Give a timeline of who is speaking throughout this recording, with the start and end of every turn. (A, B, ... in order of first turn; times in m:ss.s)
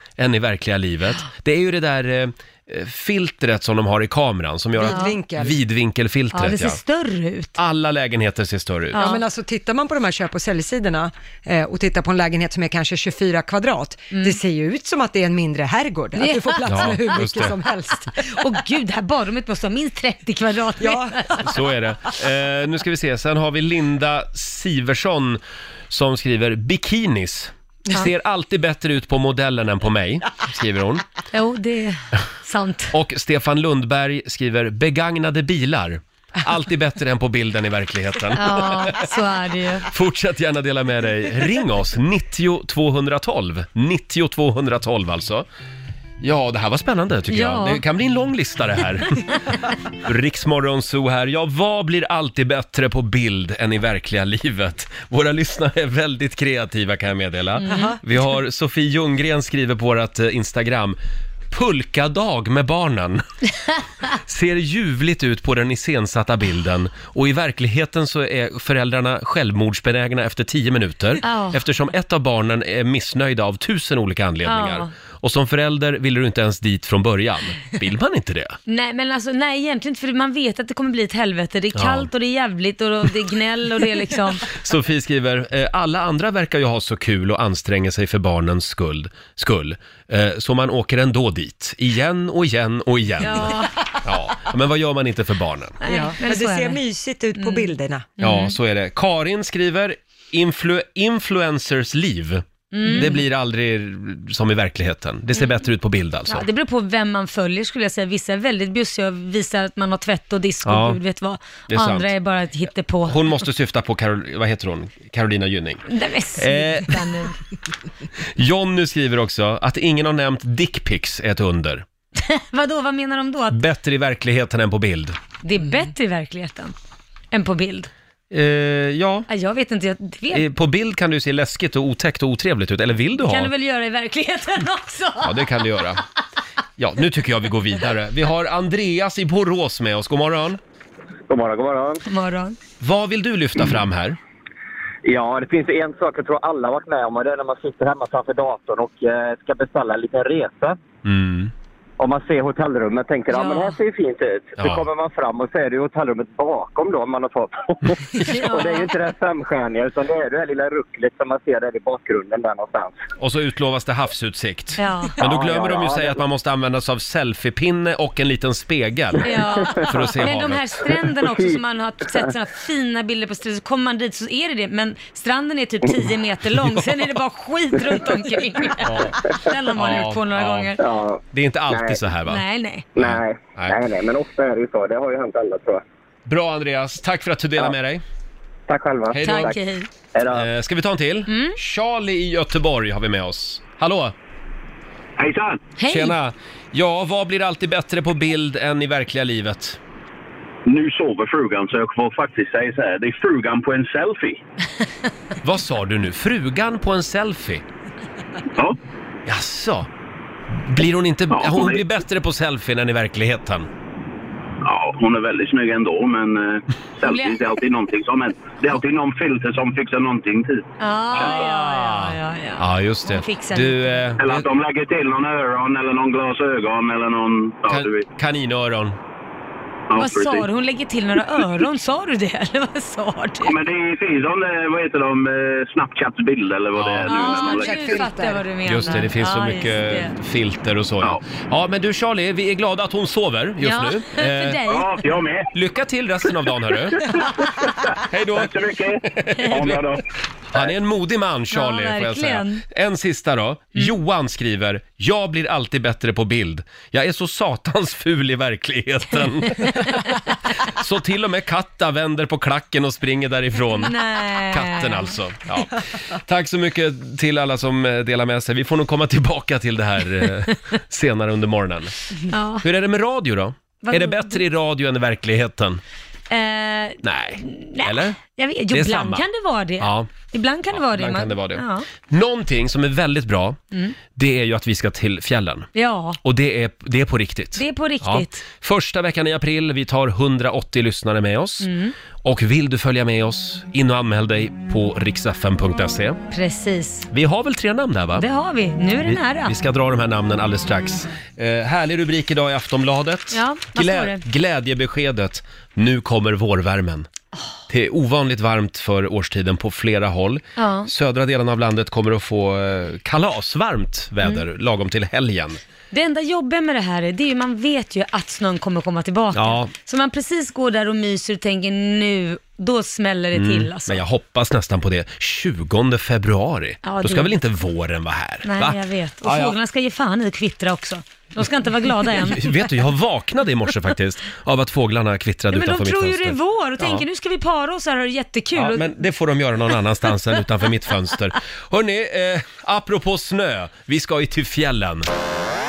0:00.2-0:06.8 A
0:04.8-0:05.6 B
0:04.8-0:05.2 C
0:06.3-0:07.5 C
0:07.6-0:09.0 A
0:08.9-0:09.2 C
0:09.0-0:18.3 B
0:16.2-0:17.1 C
0:16.6-0:17.5 A
0:18.2-0:21.4 C
0:20.8-0:21.5 B
0:21.4-0:31.0 A
0:31.3-0:32.9 C
0:32.9-0:39.1 A
0:38.3-0:39.9 C
0:39.9-0:45.4 A
0:46.2-0:49.4 A
0:47.3-0:47.8 C
0:50.0-1:01.0 A
0:57.6-0:58.0 C
0:57.7-0:58.0 B
1:01.5-1:03.2 A
1:04.1-1:18.6 A
1:11.2-1:11.6 C
1:14.4-1:14.9 C
1:18.7-1:24.5 C
1:21.7-1:22.1 A
1:24.5-1:35.8 A
1:33.2-1:33.7 C
1:35.8-1:36.8 C
1:35.8-1:38.1 B
1:37.4-1:38.5 C
1:38.2-1:46.4 A
1:42.7-1:43.2 C
1:46.3-1:53.3 C
1:50.6-1:51.0 A
1:51.7-1:52.1 A
1:53.1-1:55.8 A
1:55.9-1:57.4 C
1:56.4-1:57.0 A
1:58.4-2:01.8 A
2:02.2-2:03.6 C
2:03.5-2:05.2 A
2:05.4-2:06.7 C
2:07.3-2:07.9 C
2:08.3-2:09.3 A
2:09.3-2:10.5 C
2:10.3-2:13.5 A
2:13.2-2:15.8 C
2:15.2-2:16.0 A
2:16.8-2:20.6 A
2:21.3-2:22.0 D
2:22.1-2:22.6 C
2:22.8-2:24.2 A
2:25.0-2:30.8 D
2:31.0-2:31.5 A
2:32.0-2:43.0 D
2:33.3-2:33.8 C
2:34.6-2:34.8 A
2:38.2-2:38.9 C
2:43.2-2:50.6 A
2:44.8-2:45.2 C
2:45.2-2:46.2 D
2:49.2-3:00.8 C
2:51.2-2:51.5 D
2:58.8-2:59.2 A
2:59.7-3:00.7 A
3:00.8-3:02.0 D
3:01.3-3:02.4 A
3:02.3-3:02.8 C
3:02.9-3:05.8 D
3:03.0-3:03.8 A
3:06.2-3:08.0 A
3:08.7-3:09.6 D
3:09.1-3:09.6 A
3:09.2-3:09.9 C
3:10.1-3:10.4 D
3:10.3-3:14.1 A
3:11.3-3:11.6 C
3:15.2-3:15.6 E
3:15.8-3:16.1 C
3:15.9-3:19.8 A
3:20.6-3:24.4 E
3:25.4-3:27.6 A
3:29.2-3:29.9 A
3:30.5-3:33.7 A
3:31.3-3:31.8 E
3:34.6-3:41.5 E
3:37.0-3:37.4 C
3:40.8-3:44.1 C
3:41.2-3:44.4 A
3:44.2-3:48.0 E
3:47.7-3:49.0 A
3:49.9-3:50.5 E
3:49.9-3:53.6 C
3:53.4-3:58.0 E
3:56.7-3:57.1 A
3:57.1-4:00.1 C
3:57.1-3:58.4 B
3:58.6-4:04.6 A
4:03.6-4:05.1 C
4:04.7-4:05.5 E
4:05.5-4:07.2 A
4:08.0-4:09.8 A
4:08.4-4:10.0 E
4:10.5-4:32.0 A
4:11.5-4:12.6 C
4:23.7-4:25.1 C
4:32.3-4:32.6 C
4:32.6-4:35.8 A
4:33.8-4:34.4 C
4:36.3-4:41.8 C
4:37.0-4:38.2 A
4:38.7-4:39.2 A
4:39.8-4:40.1 A
4:40.7-4:43.6 A
4:44.1-4:45.7 A
4:45.7-4:46.2 C
4:46.2-4:51.7 A
4:47.6-4:48.4 C
4:51.6-4:51.9 C
4:52.2-4:56.2 A
4:56.3-4:57.1 C
4:57.1-4:58.2 A
4:58.2-4:59.5 C
4:59.0-5:07.1 A
5:03.3-5:04.2 C
5:07.7-5:15.6 A
5:10.6-5:10.9 C
5:15.9-5:24.0 C
5:19.3-5:19.7 A
5:23.3-5:29.5 A
5:26.8-5:27.4 C
5:28.4-5:32.9 C
5:32.2-5:37.0 A
5:35.5-5:39.1 C
5:38.5-5:45.1 A